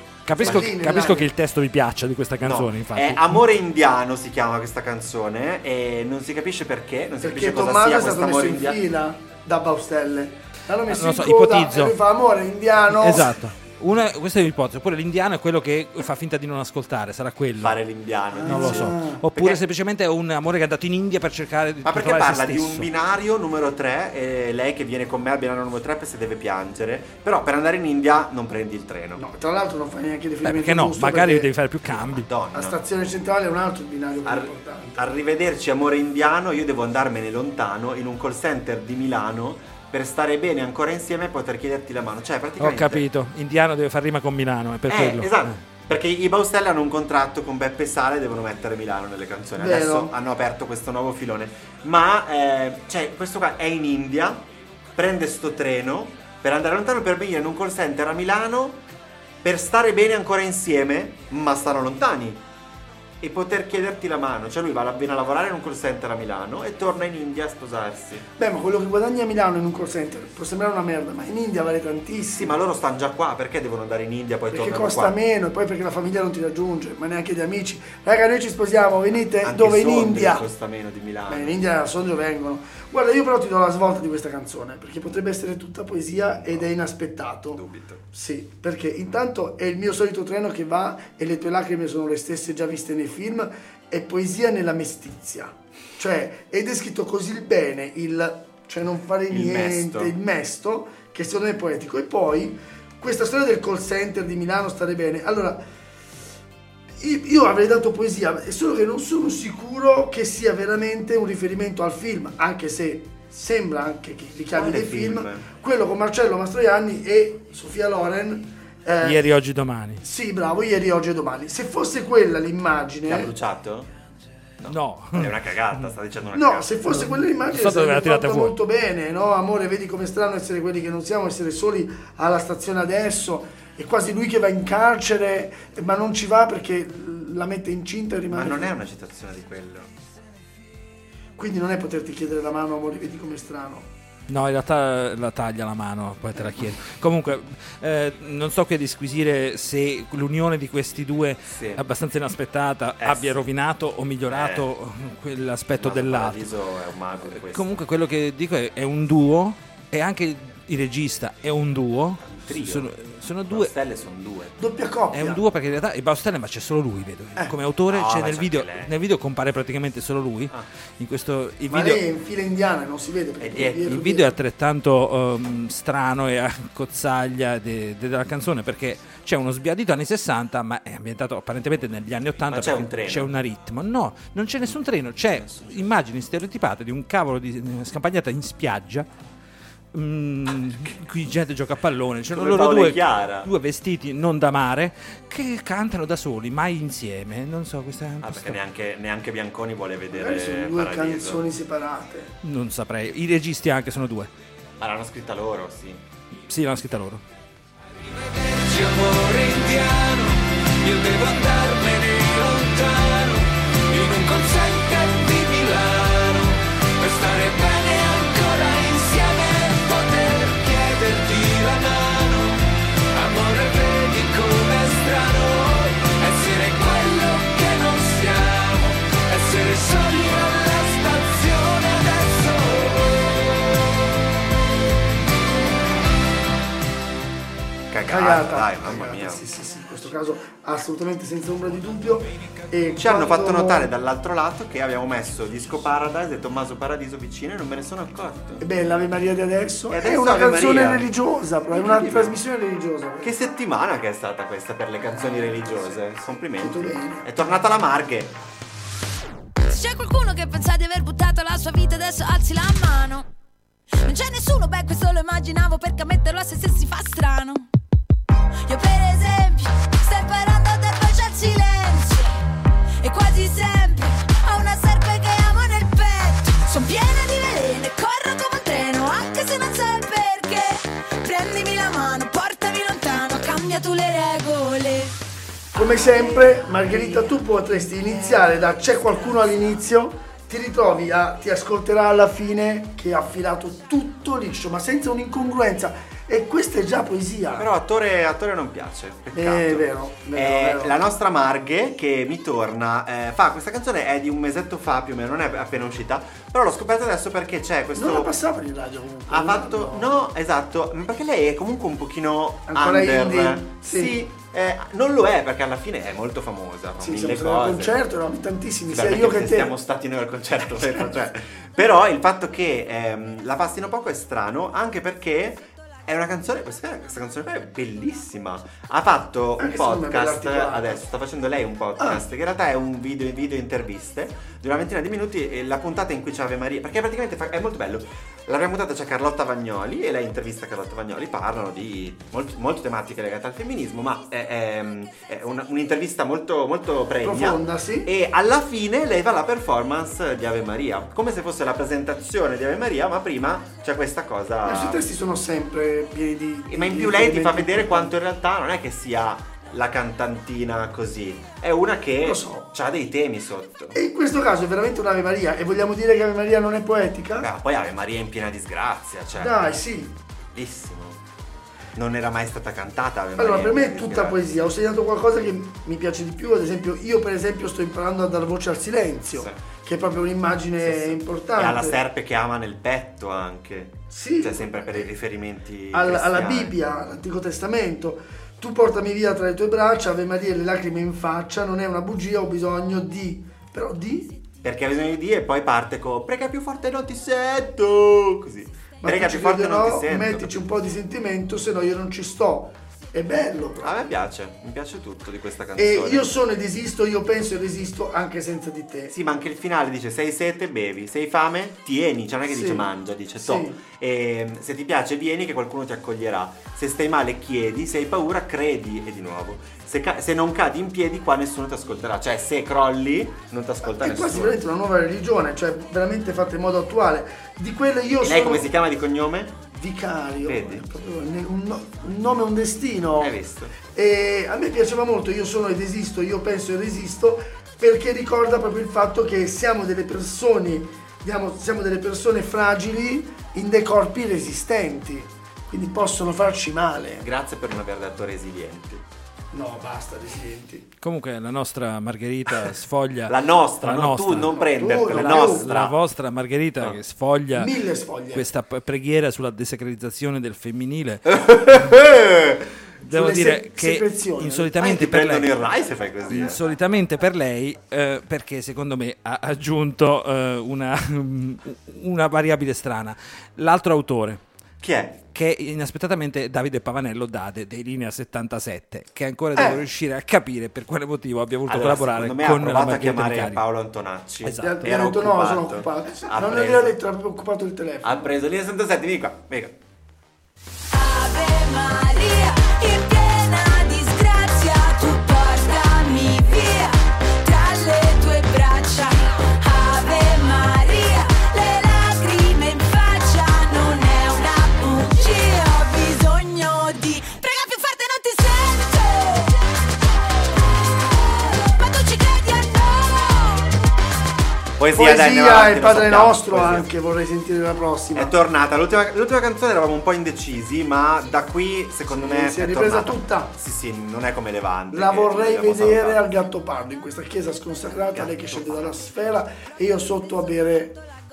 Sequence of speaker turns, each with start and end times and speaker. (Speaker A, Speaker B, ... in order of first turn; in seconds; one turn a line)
Speaker A: 0.2-3.3
Speaker B: 0.4-1.3
Speaker C: 2.4-8.8
Speaker B: 7.2-13.4
Speaker A: 10.9-12.0
Speaker A: 12.9-17.8
Speaker C: 17.6-19.6
Speaker B: 18.4-19.2
Speaker A: 18.5-22.9
Speaker C: 21.8-29.2
Speaker B: 29.1-31.5
Speaker A: 30.4-32.3
Speaker C: 31.9-32.8
Speaker B: 32.5-35.1
Speaker C: 34.2-43.0
Speaker A: 42.6-45.6
Speaker C: 44.9-54.4
Speaker B: 49.6-50.1
Speaker C: 54.9-58.8
Speaker C: 59.4-62.4
Speaker C: 63.2-68.2
Speaker B: 68.4-72.5
Speaker C: 72.4-75.2
Speaker B: 74.5-80.5
Speaker C: 79.4-81.6
Speaker B: 81.3-105.6
Speaker C: 86.4-86.7
Speaker C: 87.5-88.0
Speaker C: 99.3-100.2
Speaker B: 107.0-119.2
Speaker C: 114.5-115.5
Speaker A: 119.0-120.0
Speaker B: 120.0-123.3
Speaker C: 123.1-123.9
Speaker C: 124.6-126.8
Speaker A: 124.7-125.4
Speaker B: 126.3-138.7
Speaker A: 126.9-128.6
Speaker C: 138.3-139.9
Speaker B: 141.4-143.9
Speaker A: 144.3-156.4
Speaker C: 151.5-151.8
Speaker C: 153.0-153.5
Speaker C: 154.3-154.7
Speaker C: 155.8-157.8
Speaker A: 157.4-163.7
Speaker C: 162.2-162.9
Speaker C: 163.5-164.6
Speaker B: 164.6-165.4
Speaker A: 165.1-172.0
Speaker C: 167.9-168.9
Speaker B: 171.7-174.3
Speaker C: 173.4-173.8
Speaker A: 173.8-189.1
Speaker C: 182.5-183.3
Speaker C: 185.4-185.8
Speaker A: 189.9-198.6
Speaker C: 192.3-193.5
Speaker C: 198.2-201.4
Speaker B: 200.1-202.3
Speaker A: 202.4-204.3
Speaker C: 204.8-206.0
Speaker A: 206.5-207.2
Speaker D: 208.3-222.6
Speaker D: 223.1-233.7
Speaker C: 237.9-239.4
Speaker B: 238.1-243.9
Speaker C: 242.9-248.6
Speaker B: 248.6-253.3
Speaker C: 249.9-251.1
Speaker C: 251.7-252.4
Speaker C: 253.2-258.3
Speaker B: 256.6-257.4
Speaker E: 259.6-263.3
Speaker E: 264.0-267.7
Speaker E: 268.6-272.3
Speaker E: 273.0-285.1
Speaker B: 285.7-297.7
Speaker C: 297.5-308.4
Speaker B: 299.3-301.0
Speaker B: 307.9-310.2
Speaker C: 309.3-318.0
Speaker B: 312.7-314.2
Speaker B: 317.0-319.7
Speaker C: 318.9-355.1
Speaker B: 329.6-331.0
Speaker B: 347.2-348.1
Speaker B: 354.6-358.1
Speaker C: 356.7-363.9
Speaker B: 362.2-362.7
Speaker B: 363.9-367.5
Speaker C: 367.4-369.7
Speaker B: 369.4-370.1
Speaker C: 370.5-371.2
Speaker C: 371.9-374.4
Speaker B: 373.4-382.0
Speaker C: 379.3-379.6
Speaker C: 380.8-386.7
Speaker B: 384.1-385.1
Speaker B: 385.9-394.3
Speaker C: 394.6-400.6
Speaker B: 399.0-404.1
Speaker C: 403.8-406.3
Speaker B: 405.8-409.1
Speaker C: 409.1-424.6
Speaker B: 412.5-412.9
Speaker B: 413.4-413.8
Speaker B: 423.8-428.7
Speaker C: 428.2-429.6
Speaker B: 429.7-433.4
Speaker C: 430.4-430.9
Speaker C: 433.2-433.7
Speaker B: 433.9-447.3
Speaker C: 447.2-449.0
Speaker B: 449.5-450.8
Speaker A: 451.0-457.7
Speaker C: 453.3-456.0
Speaker B: 454.5-455.7
Speaker B: 457.5-458.4
Speaker A: 458.3-461.3
Speaker C: 461.3-462.7
Speaker A: 463.0-465.6
Speaker B: 463.1-464.7
Speaker C: 464.8-466.6
Speaker A: 466.3-474.4
Speaker C: 474.8-475.2
Speaker A: 475.3-483.6
Speaker B: 479.6-479.8
Speaker C: 481.7-487.0
Speaker A: 484.4-484.9
Speaker B: 484.6-488.3
Speaker C: 488.0-489.7
Speaker E: 490.9-509.7
Speaker E: 510.9-513.7
Speaker C: 514.8-516.9
Speaker B: 514.9-518.3
Speaker C: 518.1-526.2
Speaker B: 522.1-523.5
Speaker B: 524.9-531.0
Speaker C: 528.0-529.0